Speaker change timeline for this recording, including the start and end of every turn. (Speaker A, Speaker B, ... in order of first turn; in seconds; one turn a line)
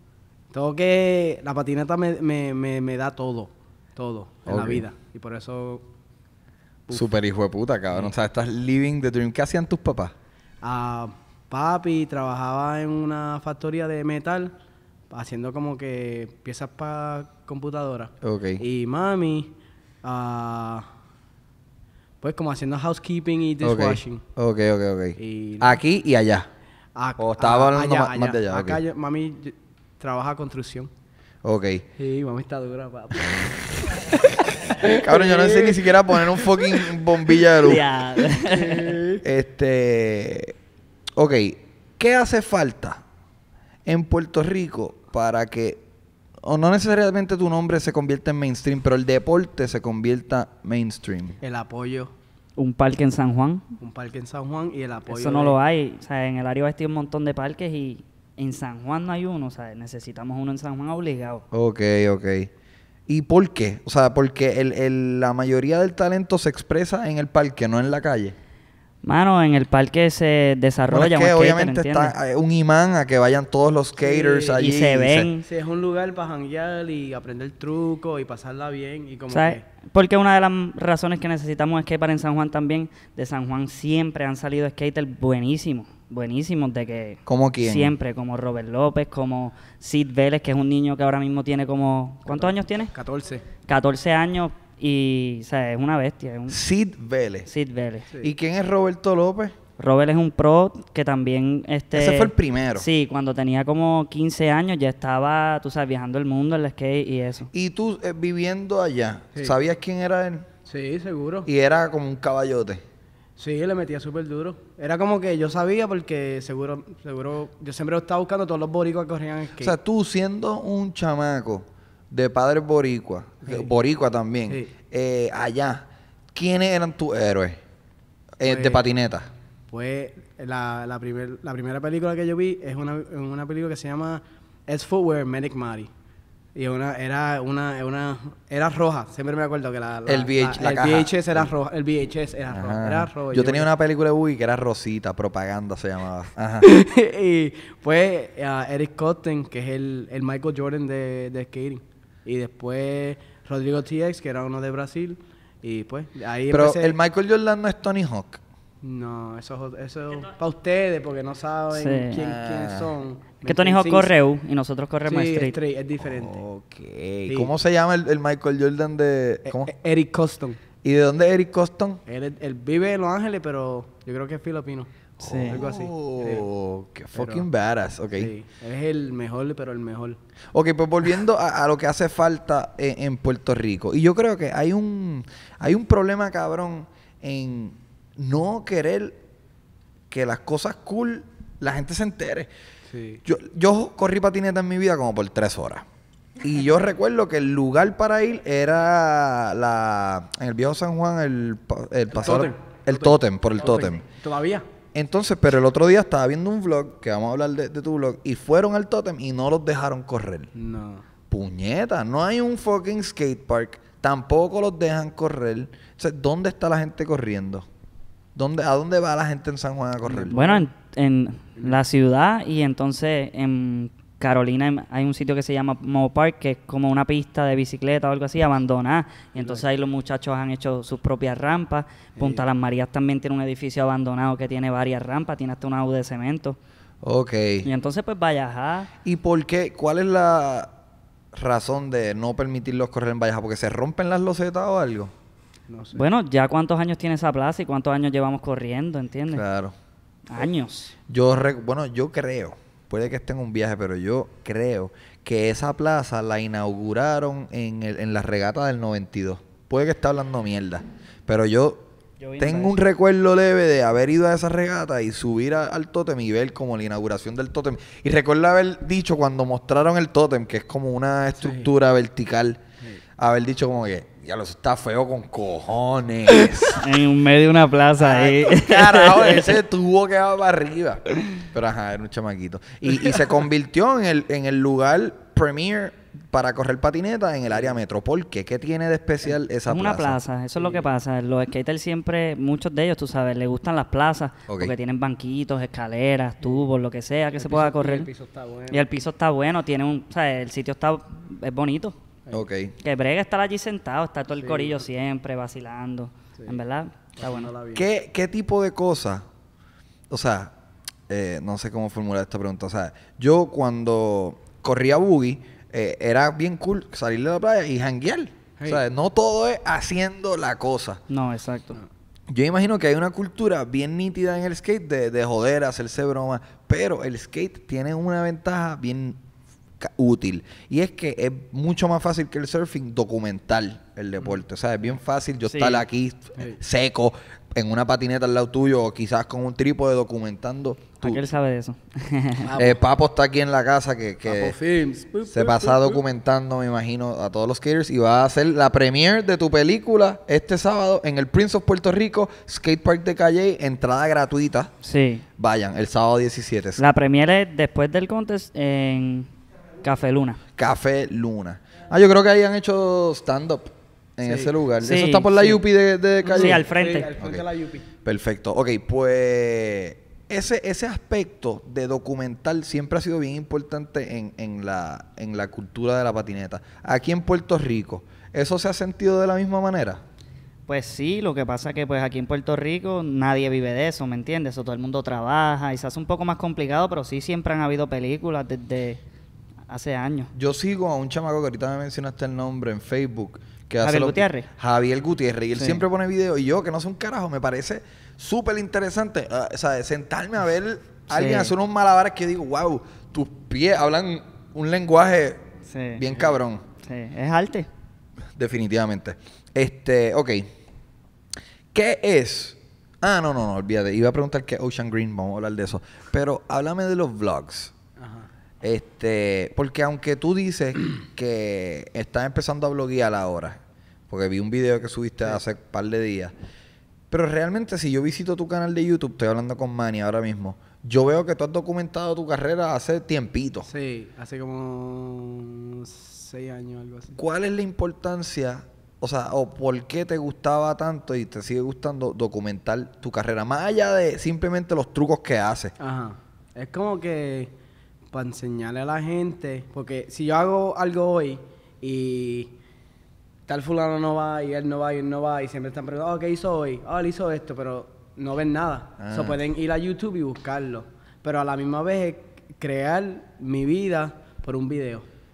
Speaker A: 0.5-5.8
Speaker B: 4.5-4.8
Speaker A: 6.9-7.1
Speaker B: 6.9-10.1
Speaker A: 10.6-14.6
Speaker A: 15.1-20.9
Speaker B: 18.2-18.6
Speaker A: 22.2-24.2
Speaker B: 23.6-26.5
Speaker A: 25.2-25.8
Speaker A: 27.0-30.9
Speaker B: 27.2-28.8
Speaker B: 31.4-31.9
Speaker A: 32.0-35.8
Speaker B: 33.2-37.8
Speaker A: 36.3-36.9
Speaker C: 37.5-39.0
Speaker A: 38.4-39.2
Speaker B: 39.2-40.5
Speaker B: 41.2-43.0
Speaker B: 43.9-45.8
Speaker B: 46.4-51.4
Speaker A: 51.4-52.1
Speaker C: 52.6-53.6
Speaker A: 53.8-55.6
Speaker C: 55.1-61.4
Speaker B: 61.5-62.5
Speaker B: 63.1-68.4
Speaker C: 69.0-72.2
Speaker B: 70.9-75.3
Speaker A: 74.0-74.6
Speaker C: 74.6-75.5
Speaker A: 75.4-79.6
Speaker C: 79.3-92.9
Speaker B: 87.3-88.0
Speaker A: 92.3-93.4
Speaker C: 93.7-96.6
Speaker B: 96.5-97.5
Speaker C: 97.5-98.1
Speaker B: 98.2-99.6
Speaker C: 99.8-107.5
Speaker B: 101.9-102.9
Speaker B: 107.5-110.5
Speaker A: 110.7-111.5
Speaker B: 111.5-112.8
Speaker A: 113.4-119.8
Speaker B: 119.6-127.6
Speaker A: 123.4-123.7
Speaker B: 128.4-129.3
Speaker A: 128.4-128.8
Speaker A: 129.7-135.9
Speaker A: 136.6-143.7
Speaker B: 140.1-141.5
Speaker B: 142.5-146.7
Speaker A: 146.6-157.0
Speaker B: 156.5-158.4
Speaker A: 158.8-164.1
Speaker C: 161.7-162.2
Speaker B: 162.2-162.9
Speaker C: 163.4-165.6
Speaker A: 165.1-166.4
Speaker B: 166.0-169.7
Speaker A: 169.4-170.6
Speaker B: 170.8-172.0
Speaker A: 172.1-176.5
Speaker C: 175.2-175.6
Speaker B: 175.2-178.3
Speaker A: 177.1-177.5
Speaker A: 178.2-180.2
Speaker B: 180.5-189.2
Speaker B: 190.1-192.5
Speaker A: 192.9-193.2
Speaker B: 193.2-195.9
Speaker B: 196.4-204.0
Speaker A: 202.1-204.7
Speaker B: 204.9-210.5
Speaker A: 210.5-211.1
Speaker B: 211.3-217.7
Speaker B: 218.3-220.6
Speaker A: 220.1-220.7
Speaker C: 220.3-236.6
Speaker A: 229.4-229.6
Speaker A: 232.2-232.4
Speaker B: 237.0-237.7
Speaker C: 237.7-238.9
Speaker B: 239.0-240.7
Speaker B: 241.3-245.1
Speaker A: 245.7-246.1
Speaker C: 245.9-249.4
Speaker B: 249.3-249.8
Speaker C: 250.3-250.9
Speaker B: 251.1-261.9
Speaker C: 262.2-262.8
Speaker B: 262.4-272.6
Speaker A: 271.4-271.7
Speaker B: 273.2-276.8
Speaker C: 276.7-279.5
Speaker B: 278.0-290.2
Speaker C: 289.7-298.1
Speaker A: 290.6-290.9
Speaker B: 294.5-294.7
Speaker A: 297.4-298.9
Speaker C: 298.7-302.0
Speaker B: 302.3-302.8
Speaker C: 302.8-307.5
Speaker A: 304.4-304.8
Speaker A: 307.2-307.9
Speaker B: 307.7-309.2
Speaker B: 310.1-310.5
Speaker B: 311.1-321.0
Speaker C: 321.1-321.8
Speaker B: 322.3-329.2
Speaker B: 329.8-341.2
Speaker C: 335.5-335.9
Speaker C: 341.0-342.5
Speaker A: 342.4-342.8
Speaker B: 342.6-344.6
Speaker A: 344.3-346.0
Speaker B: 345.3-354.7
Speaker C: 354.8-355.2
Speaker B: 355.4-356.8
Speaker C: 356.8-359.3
Speaker C: 359.8-360.4
Speaker B: 360.6-366.7
Speaker A: 364.2-364.5
Speaker C: 364.8-365.6
Speaker A: 366.2-367.9
Speaker C: 366.3-367.1
Speaker B: 368.0-380.0
Speaker C: 380.7-389.0
Speaker C: 389.7-390.3
Speaker B: 390.3-405.4
Speaker C: 393.8-394.5
Speaker C: 395.6-395.8
Speaker C: 401.1-401.5
Speaker C: 405.7-406.1
Speaker B: 406.0-406.6
Speaker C: 406.8-407.7
Speaker B: 408.4-410.5
Speaker B: 411.7-417.7
Speaker A: 418.0-418.3
Speaker B: 418.6-426.3
Speaker B: 427.1-433.7
Speaker A: 433.7-437.2
Speaker B: 437.1-445.7
Speaker A: 445.8-447.5
Speaker A: 448.1-452.5
Speaker A: 453.5-465.1
Speaker B: 459.0-459.4